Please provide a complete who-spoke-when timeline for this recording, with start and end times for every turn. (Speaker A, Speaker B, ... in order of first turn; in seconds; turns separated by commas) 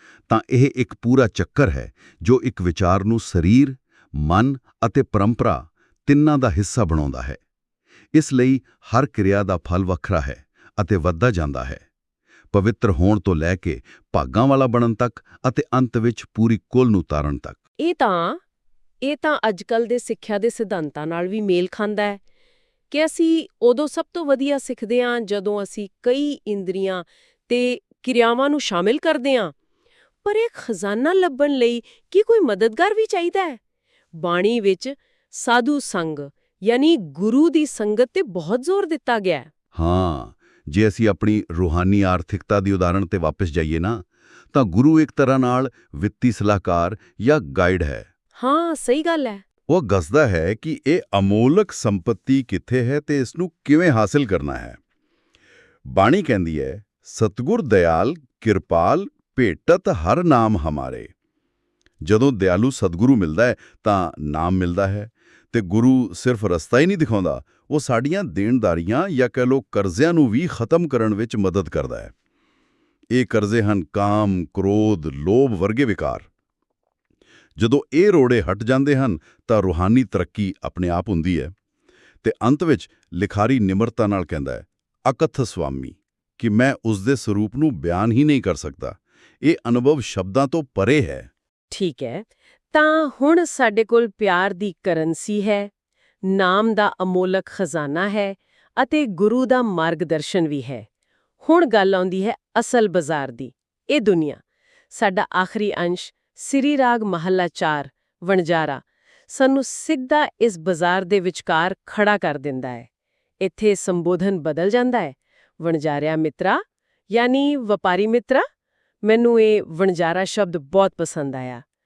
Speaker A: 0.3-7.4, Speaker A: 8.1-11.8, Speaker A: 12.5-17.6, Speaker B: 17.8-18.4, Speaker B: 19.0-22.2, Speaker B: 22.9-29.5, Speaker B: 30.2-33.6, Speaker B: 34.1-39.5, Speaker A: 39.7-48.1, Speaker B: 48.4-49.4, Speaker A: 49.7-54.8, Speaker A: 55.9-61.1, Speaker A: 62.0-72.1, Speaker A: 73.1-76.3, Speaker A: 77.6-81.5, Speaker A: 82.2-91.3, Speaker B: 91.7-95.7, Speaker B: 96.2-100.8, Speaker B: 101.4-104.4, Speaker B: 104.9-112.9, Speaker B: 113.4-118.4, Speaker B: 119.0-121.6